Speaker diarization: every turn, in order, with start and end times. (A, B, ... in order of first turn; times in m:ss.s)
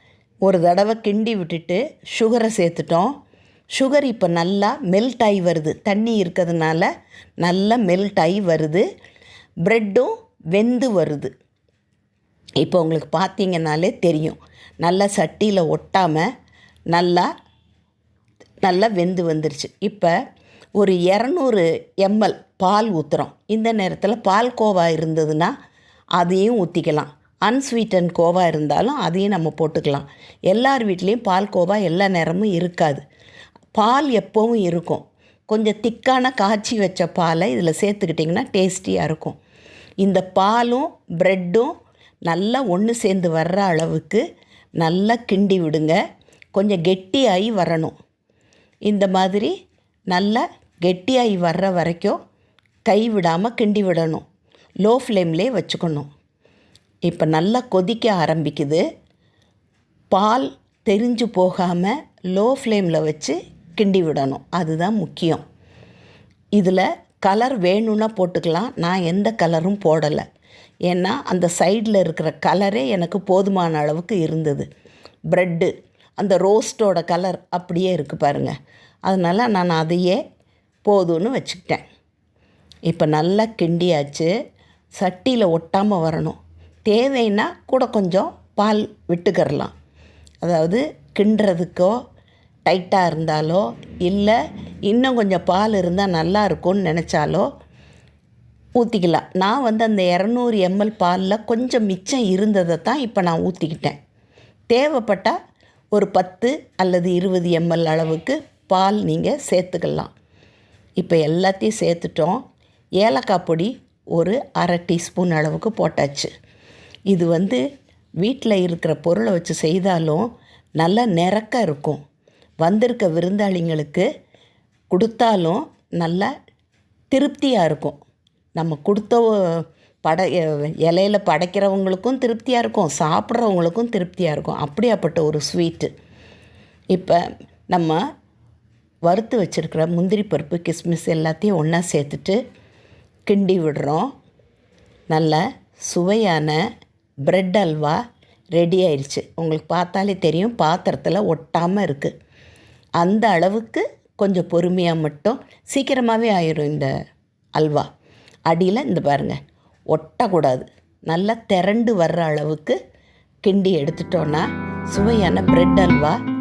0:00.4-0:03.1 A
0:03.7-0:06.9 A
0:07.4-0:08.8 A
0:09.6-0:11.3 A
0:12.6-0:16.2 A
0:16.9-0:17.3 A
0:18.6-0:20.1 A
0:20.8-0:25.5 A
0:26.2-0:33.0 A
0:33.7-0:39.4 A
0:40.0-0:41.7 A
0:42.2-0:44.2 A
0:44.8-0:46.0 A
0:46.5-0:47.9 A
0:48.8-0:49.5 A
0:50.1-0:52.2 A
0:52.8-0:54.2 A
0:54.8-0:56.1 A
0:57.0-0:58.8 A
1:00.1-1:05.4 A
1:06.5-1:10.2 A
1:10.9-1:14.6 A
1:15.3-1:18.5 A
1:19.0-1:20.2 A
1:20.8-1:21.8 A
1:22.9-1:24.3 A
1:25.0-1:29.7 A
1:30.4-1:31.9 A
1:32.6-1:37.5 A
1:38.8-1:44.0 A
1:44.7-1:45.4 A
1:45.9-1:50.1 A
1:51.0-1:52.4 A
1:53.0-1:56.3 A
1:57.1-1:57.6 A
1:58.2-2:00.3 A
2:00.8-2:02.0 A
2:02.6-2:04.0 A
2:04.9-2:06.3 A
2:07.1-2:08.0 A
2:08.6-2:15.9 A
2:16.9-2:18.0 A
2:19.0-2:22.4 A
2:23.2-2:24.1 A
2:25.1-2:26.6 A
2:27.2-2:28.0 A
2:28.5-2:32.1 A
2:33.0-2:36.9 A
2:37.6-2:37.9 A
2:38.5-2:39.4 A
2:39.9-2:42.8 A
2:43.4-2:46.2 A